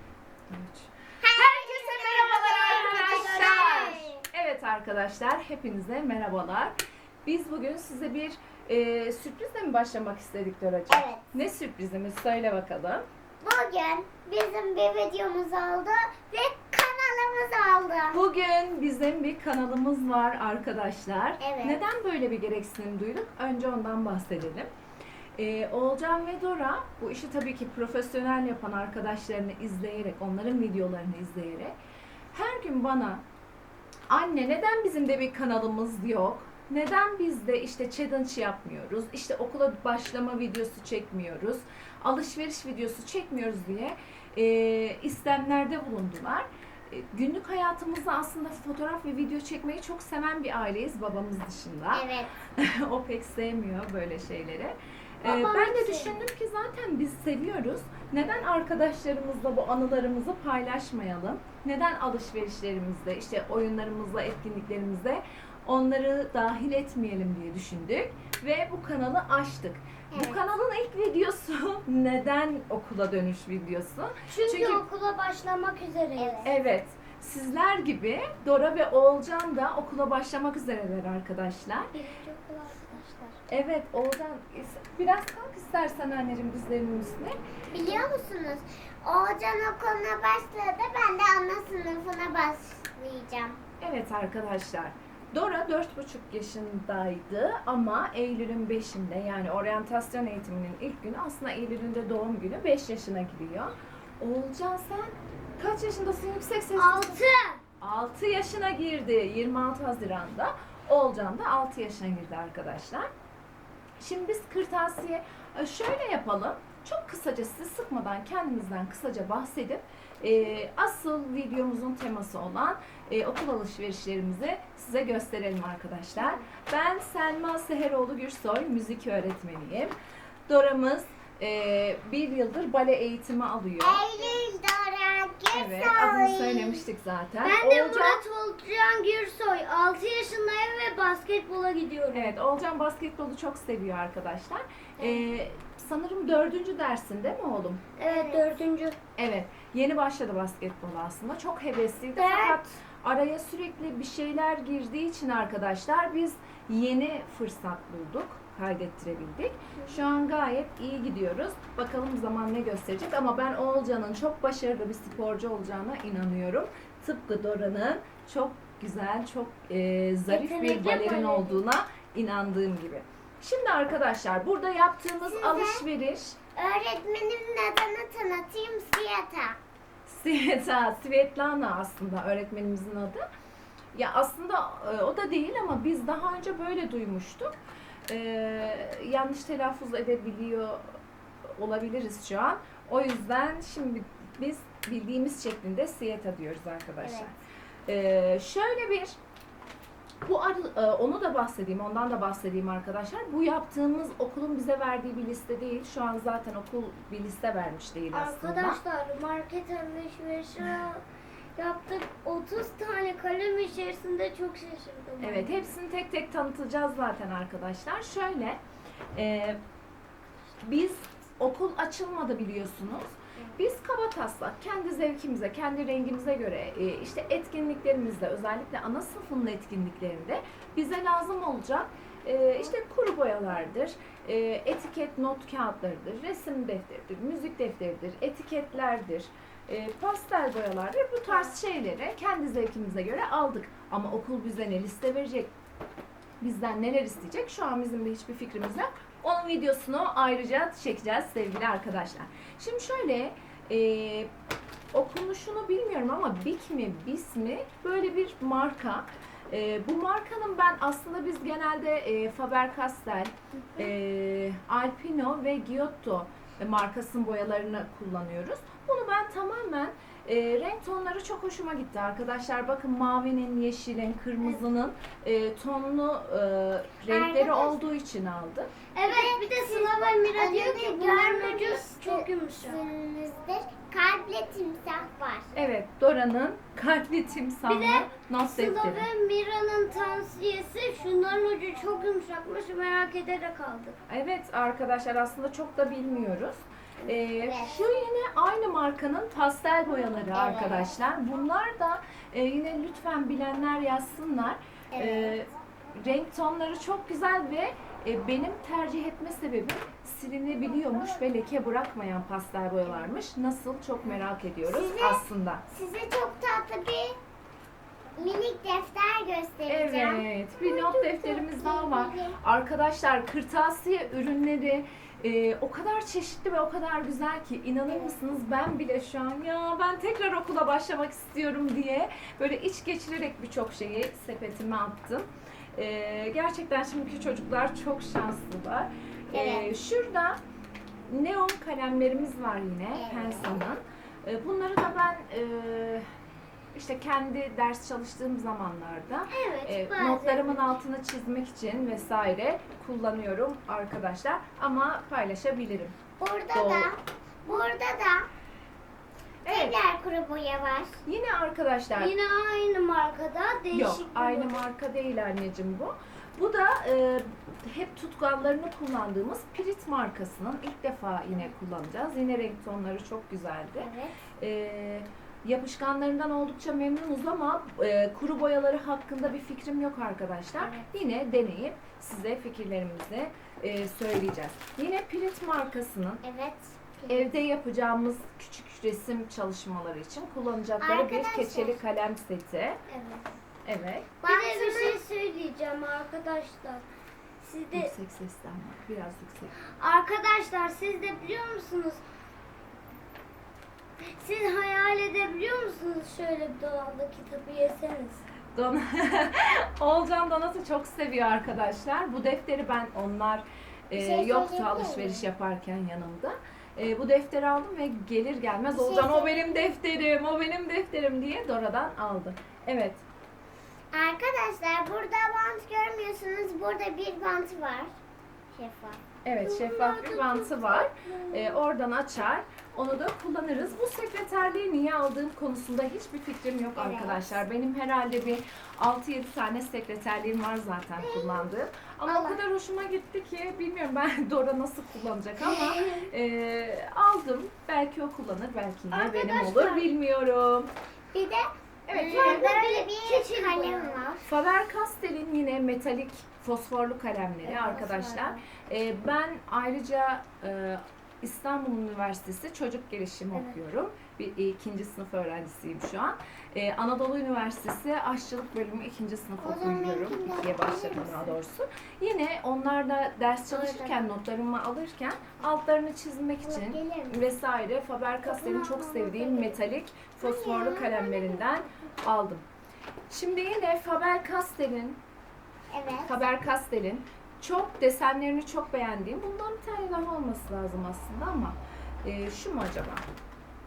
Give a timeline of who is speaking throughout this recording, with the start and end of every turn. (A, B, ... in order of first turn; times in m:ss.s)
0:00.5-0:13.0 A
0:01.2-0:04.2 B
0:02.5-0:04.1 C
0:10.9-0:11.3 B
0:13.4-0:18.2 B
0:18.1-0:24.7 A
0:21.4-0:21.8 B
0:25.4-0:31.8 A
0:32.3-0:33.2 A
0:34.1-1:14.8 A
0:51.9-0:52.3 B
0:55.2-0:56.2 C
1:10.1-1:10.4 B
1:14.3-1:16.6 C
1:16.2-1:16.5 B
1:16.4-1:21.9 A
1:21.9-1:23.4 C
1:23.5-1:27.4 A
1:27.7-1:33.6 B
1:33.8-1:47.2 A
1:46.7-1:47.6 C
1:47.8-1:53.1 A
1:54.0-2:10.0 A
2:10.5-2:14.0 A
2:13.8-2:16.8 B
2:15.5-2:18.2 A
2:17.4-2:22.4 C
2:22.1-2:27.8 A
2:28.0-2:29.0 C
2:28.0-2:28.5 B
2:29.2-2:56.4 A
2:32.2-2:32.8 C
2:50.3-2:51.6 C
2:55.2-2:55.8 B
2:56.6-2:59.6 B
3:00.1-3:03.2 A
3:03.9-3:07.6 A
3:08.1-3:10.8 A
3:11.6-3:19.2 A
3:17.0-3:17.3 B
3:20.2-3:28.8 A
3:28.1-3:31.0 C
3:31.6-3:35.7 C
3:35.2-3:38.6 A
3:39.2-3:39.6 A
3:40.6-4:05.5 A
4:06.4-4:14.3 A
4:14.9-4:38.7 A
4:37.1-4:37.8 B
4:39.0-4:42.8 C
4:39.1-4:45.5 B
4:45.6-4:49.1 A
4:47.7-4:54.0 C
4:54.1-5:15.6 A
4:57.4-4:57.8 B
5:00.3-5:00.9 B
5:04.9-5:05.4 B
5:14.7-5:17.2 B
5:18.2-5:22.4 B
5:19.7-5:40.4 A
5:39.3-5:39.7 B
5:41.1-5:46.1 A
5:42.9-5:43.5 B
5:46.7-5:56.0 A
5:49.3-5:50.8 C
5:56.2-5:58.3 B
5:56.5-5:56.9 A
5:59.4-5:59.8 A
5:59.5-6:01.0 B
6:01.1-6:02.1 A
6:02.0-6:04.6 C
6:03.7-6:26.2 A
6:13.8-6:14.1 B
6:20.6-6:20.9 B
6:26.2-6:27.4 B
6:27.1-6:32.8 A
6:30.8-6:31.8 B
6:32.9-6:33.2 B
6:33.7-6:34.1 A
6:34.2-6:35.0 B
6:34.2-6:36.9 C
6:37.4-6:37.9 C
6:37.7-6:39.5 A
6:39.8-6:42.0 C
6:44.2-6:48.2 C
6:48.5-7:03.0 A
6:53.9-6:55.3 B
6:58.7-6:59.4 B
7:03.9-7:07.9 B
7:08.5-7:09.0 B
7:09.2-7:30.7 A
7:09.4-7:11.6 C
7:16.8-7:17.4 B
7:21.0-7:21.5 B
7:22.1-7:22.4 B
7:28.9-7:29.9 C
7:31.1-7:34.2 B
7:31.9-7:32.6 A
7:31.9-7:34.2 C
7:34.2-8:02.4 A
7:37.4-7:38.4 C
7:49.4-7:51.3 B
7:53.7-7:53.9 C
7:56.4-7:57.3 B
7:58.3-7:59.6 B
8:00.2-8:01.4 B
8:03.1-8:05.0 A
8:05.7-8:06.3 B
8:06.0-8:13.1 A